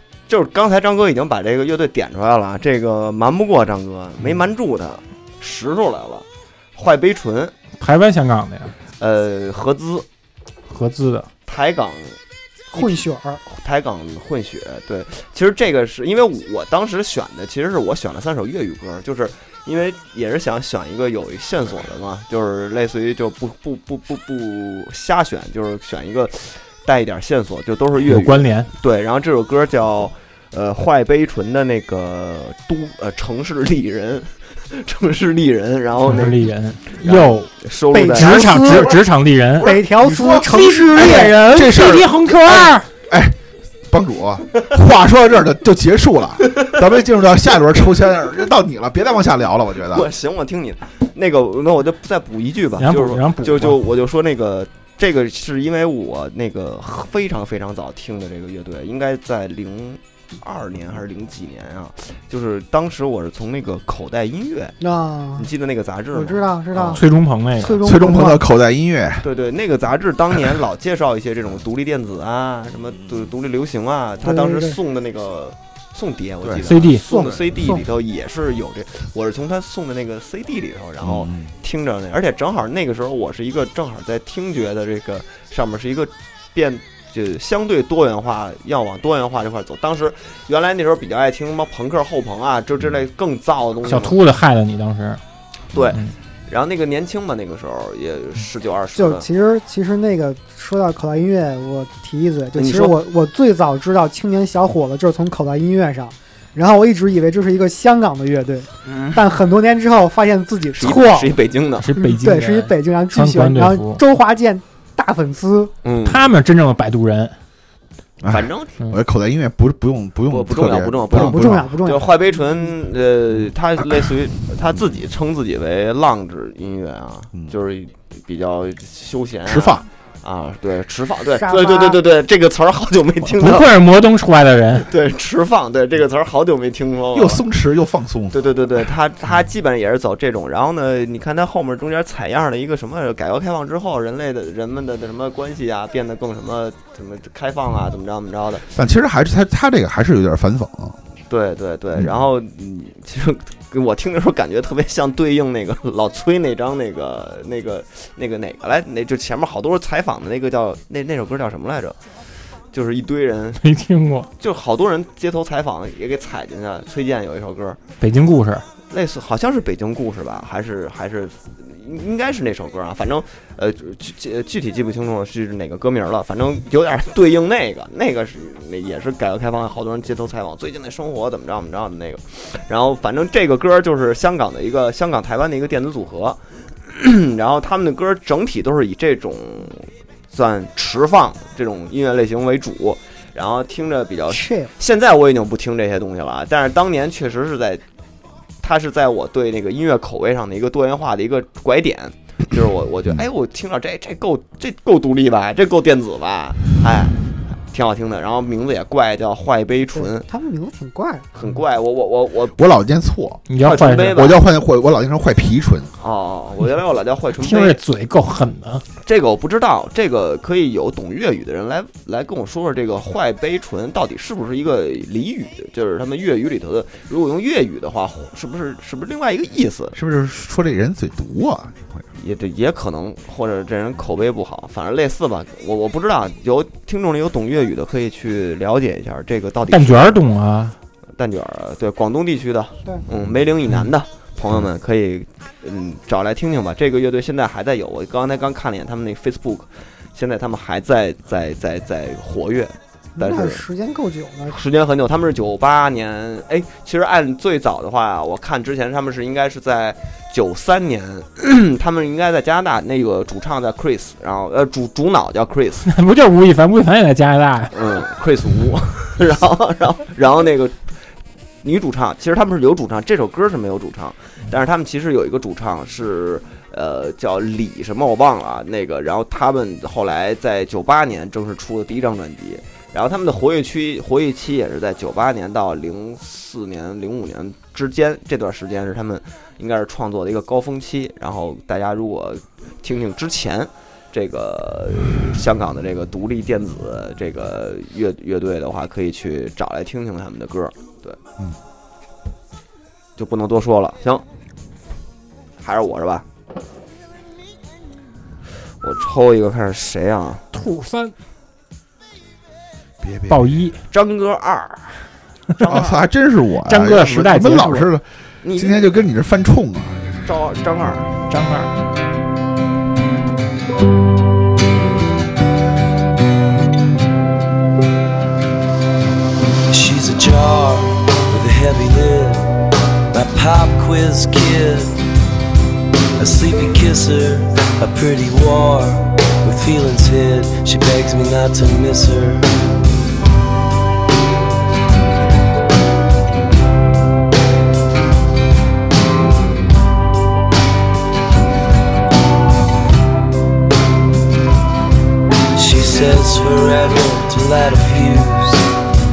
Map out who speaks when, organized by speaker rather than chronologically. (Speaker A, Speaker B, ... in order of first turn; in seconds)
Speaker A: 0.3-7.5, 9.0-10.1, 11.5-12.2, 12.7-36.4, 36.9-38.9, 49.9-64.8, 65.3-66.9, 69.2-94.2, 95.7-99.3, 102.5-102.9, 108.9-109.2, 110.8-111.9, 115.8-116.2, 118.3-118.8, 120.3-133.7, 134.9-137.4, 138.3-148.7, 151.3-162.0, 162.7-163.6, 164.4-167.8, 168.9-197.8, 198.6-210.2, 211.3-212.6, 213.6-214.4, 216.0-217.8, 219.0-230.0, 232.2-240.2, 241.2-253.6, 254.5-265.9, 267.7-270.9, 271.6-301.2, 303.2-304.2, 305.6-306.2, 308.8-310.4, 313.9-315.9, 318.4-319.1, 320.2-321.1
Speaker B: 7.8-8.7, 10.7-11.3, 28.0-28.7, 36.1-37.5, 38.1-39.7, 40.3-42.9, 52.8-53.8, 66.9-67.8, 76.6-77.0, 93.8-95.2, 111.8-114.0, 116.0-117.3, 133.3-134.9, 163.6-164.3, 168.0-168.6, 213.5-214.2, 217.4-218.8, 239.7-240.8, 265.9-267.7, 310.5-311.1, 313.3-313.8, 316.6-317.9, 321.3-321.7
Speaker C: 12.7-13.4, 37.9-38.9, 39.6-41.8, 64.8-65.5, 66.1-67.0, 67.5-68.4, 74.2-74.8, 77.1-77.8, 99.0-111.3, 112.0-115.7, 121.1-122.3, 131.4-132.0, 194.3-194.7, 209.9-211.3, 253.2-254.6
Speaker D: 39.6-43.4, 43.9-50.1, 67.7-69.2, 76.4-76.7, 81.0-81.5, 118.2-121.8, 129.4-129.8, 137.1-138.5, 148.7-151.0, 212.6-213.4, 214.0-215.9, 229.9-232.0, 313.0-313.5, 315.6-320.2
Speaker E: 329.7-332.4, 333.1-335.0, 336.2-342.6, 355.5-358.7